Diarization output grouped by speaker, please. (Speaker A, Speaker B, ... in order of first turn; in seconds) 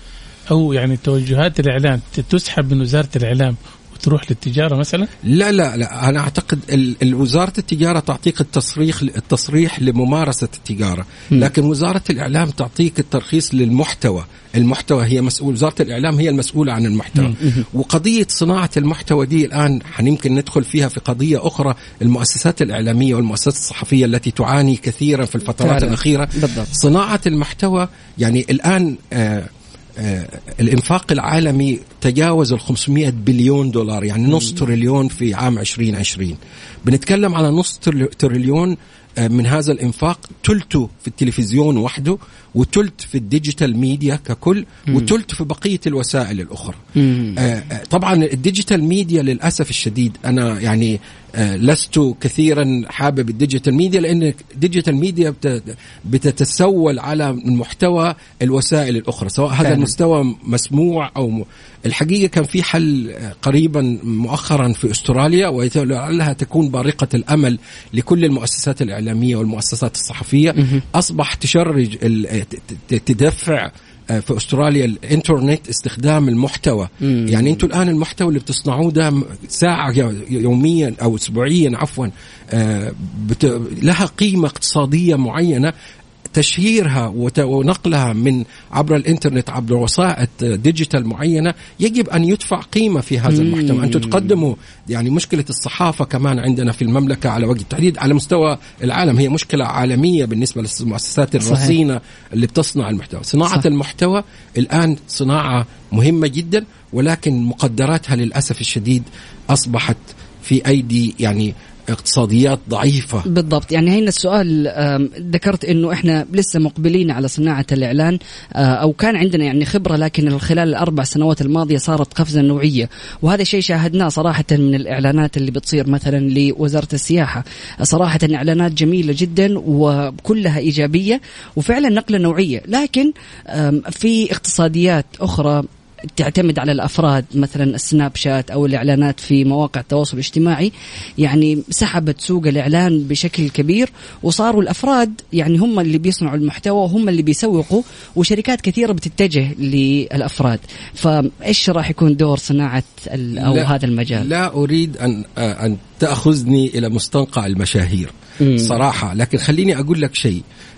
Speaker A: 0.5-5.1
Speaker B: 5.2-46.8, 47.4-85.7, 86.3-113.2, 153.3-160.4
Speaker C: 17.3-17.6, 25.6-26.7, 34.3-34.6, 47.0-47.4, 59.6-59.9, 70.5-70.8, 77.0-77.6, 93.3-94.3, 101.4-101.7, 113.3-135.6, 136.1-140.7, 141.2-154.3, 158.4-158.8